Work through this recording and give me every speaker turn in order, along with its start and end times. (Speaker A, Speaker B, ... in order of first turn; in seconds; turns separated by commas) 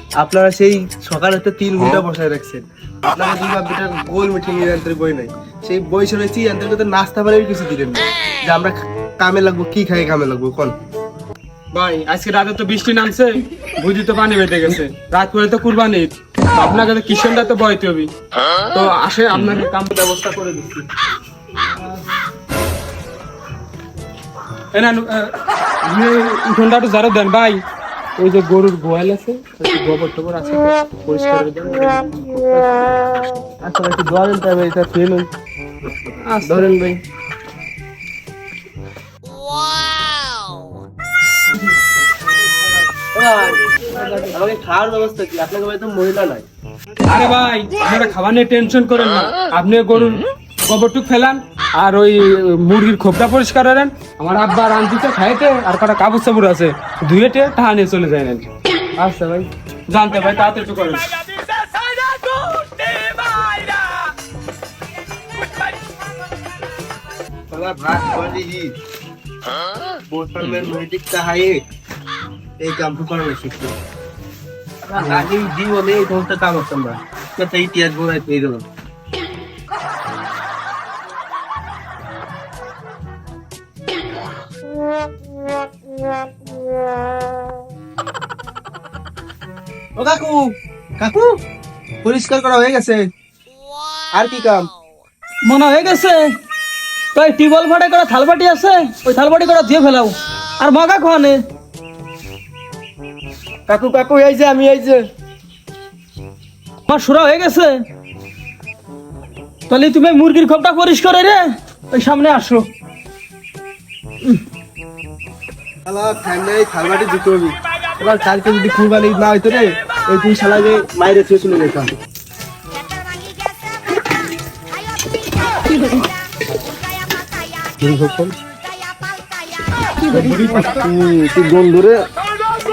Speaker A: 0.2-10.7, Speaker B: 11.7-18.1, Speaker B: 18.7-20.9, Speaker B: 24.7-27.6, Speaker B: 28.2-32.8, Speaker A: 33.6-35.3, Speaker B: 36.2-36.7, Speaker A: 36.4-37.0, Speaker A: 43.1-46.4, Speaker B: 47.1-58.5, Speaker B: 59.0-64.1, Speaker A: 67.5-68.7, Speaker A: 70.1-71.6, Speaker A: 72.6-73.7, Speaker A: 74.9-78.6, Speaker A: 90.0-91.4, Speaker A: 92.0-93.0, Speaker A: 94.1-94.7, Speaker C: 95.4-96.3, Speaker C: 97.1-101.4, Speaker A: 103.7-105.0, Speaker C: 106.9-107.7, Speaker C: 109.7-112.7, Speaker A: 115.8-121.9, Speaker B: 127.8-128.3, Speaker B: 130.0-130.8, Speaker A: 130.6-132.1